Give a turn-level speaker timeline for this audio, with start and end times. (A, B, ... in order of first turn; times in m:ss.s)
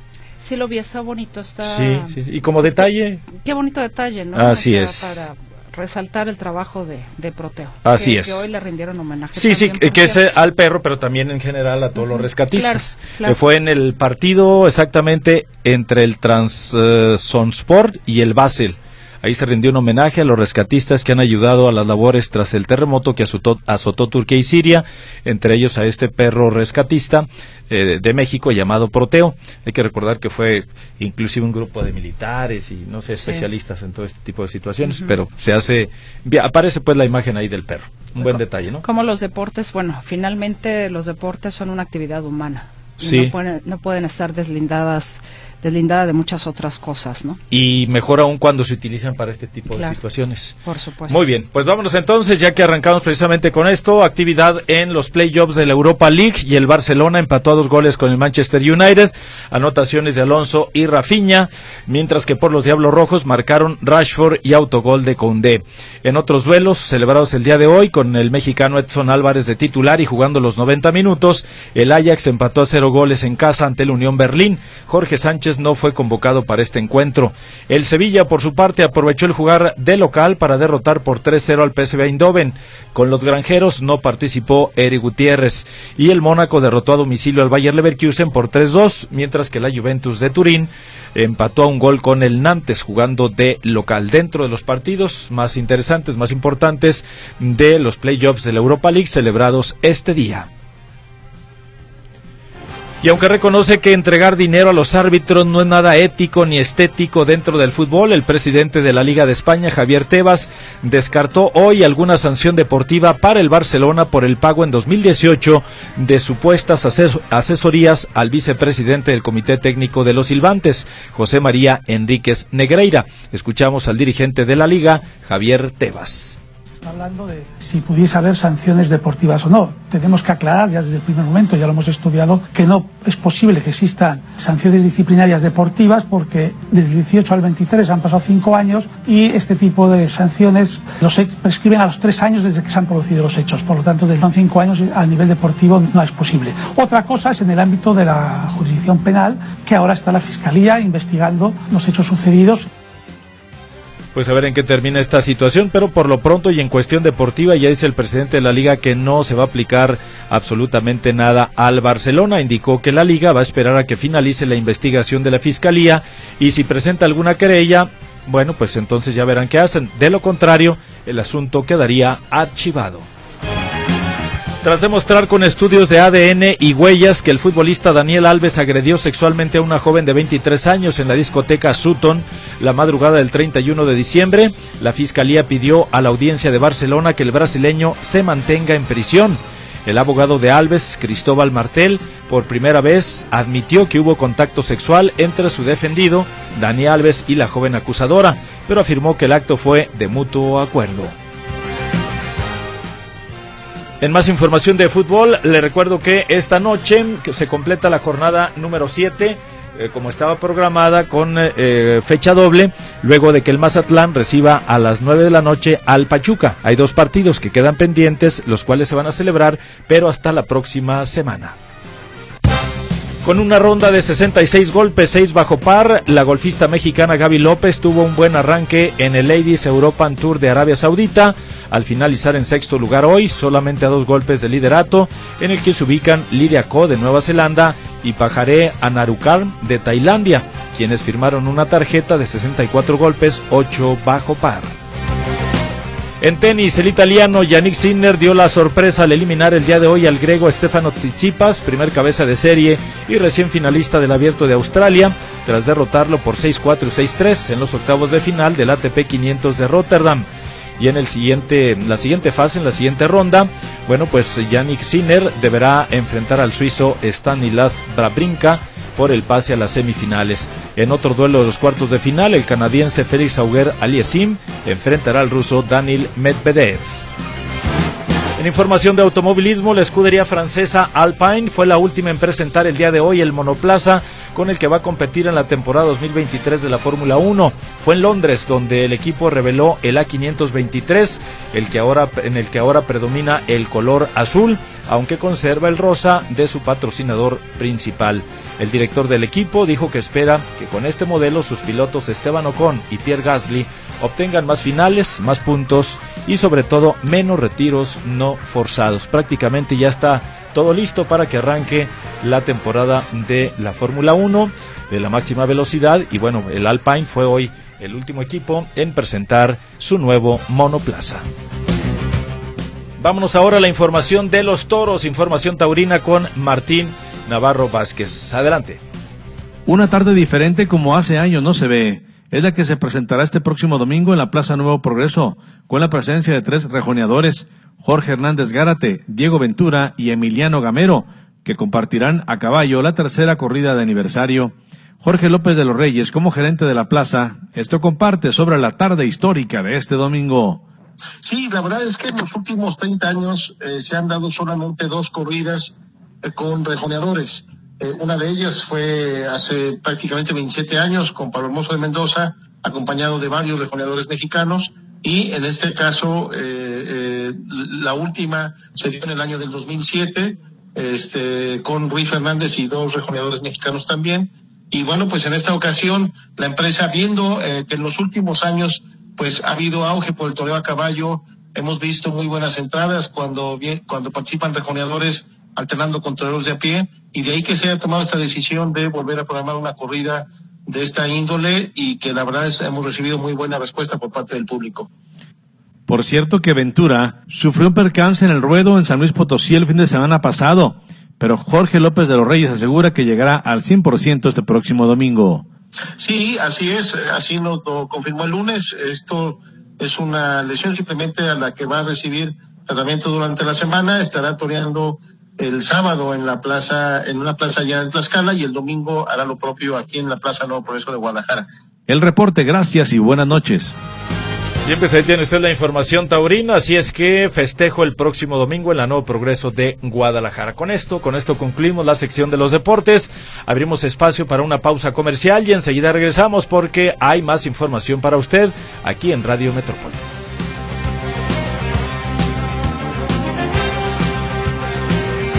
0:00.4-0:02.2 A
0:01.6-0:03.2 B
0:03.3-0:10.2 A
0:04.4-0:05.2 B
0:07.8-0:08.5 B
0:09.4-0:38.8 B
0:12.0-0:13.4 A
0:34.8-0:35.2 A
0:38.2-0:47.4 A
0:43.0-0:43.4 B
0:47.5-0:50.6 B
0:49.7-0:50.0 A
0:50.6-0:51.2 A
0:51.1-1:40.5 B
1:43.0-2:06.4 B
2:06.7-2:32.7 C
2:34.2-2:53.1 B
2:54.6-3:21.1 B
3:24.0-3:41.6 B
3:43.2-4:04.8 B
4:06.2-4:20.3 B
4:20.8-4:37.0 B
4:38.4-5:21.2 B
5:23.0-5:28.8 B
5:29.7-5:50.6 D
5:51.2-6:34.9 E
6:35.9-6:45.4 D
6:46.0-7:01.5 E
7:01.9-7:03.8 D
7:04.6-7:20.0 B